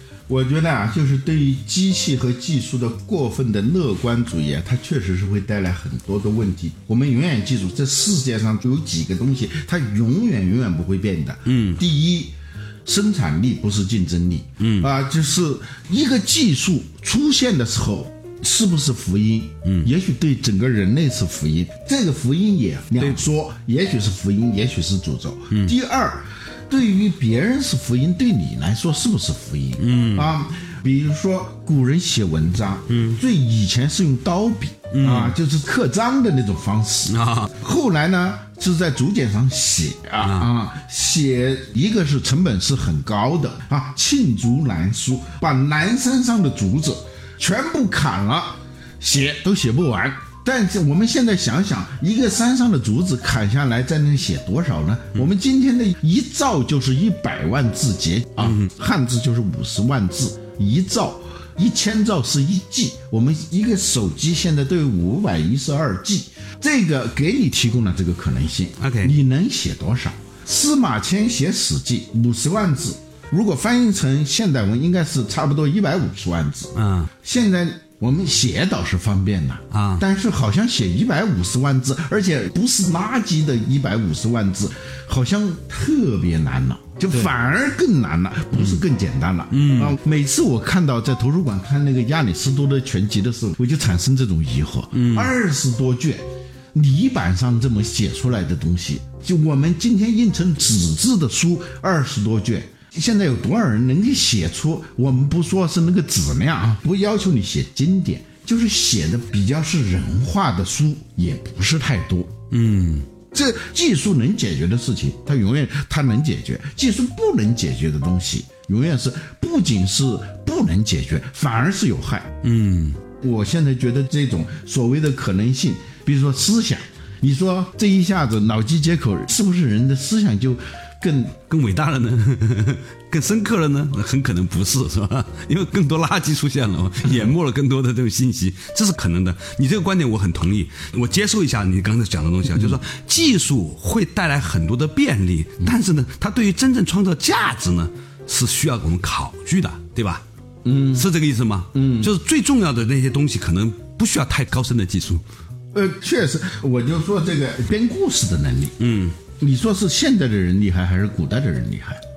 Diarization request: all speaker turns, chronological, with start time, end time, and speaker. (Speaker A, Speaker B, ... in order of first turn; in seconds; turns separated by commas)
Speaker A: 0.3-112.3, Speaker B: 11.5-11.8, Speaker B: 14.6-14.9, Speaker B: 19.6-19.9, Speaker B: 29.8-30.3, Speaker B: 32.9-33.2, Speaker B: 34.9-35.4, Speaker B: 37.1-37.5, Speaker B: 40.2-40.5, Speaker B: 58.4-58.7, Speaker B: 68.8-69.2, Speaker B: 76.8-77.1, Speaker B: 79.7-80.0, Speaker B: 89.5-90.0, Speaker B: 94.9-95.3, Speaker B: 112.5-113.1, Speaker A: 113.3-122.3, Speaker B: 122.4-123.0, Speaker A: 123.2-131.4, Speaker B: 131.5-150.2, Speaker A: 150.7-151.1, Speaker B: 150.9-155.2, Speaker A: 151.7-152.1, Speaker A: 155.7-158.7, Speaker B: 158.8-159.2, Speaker A: 159.4-162.0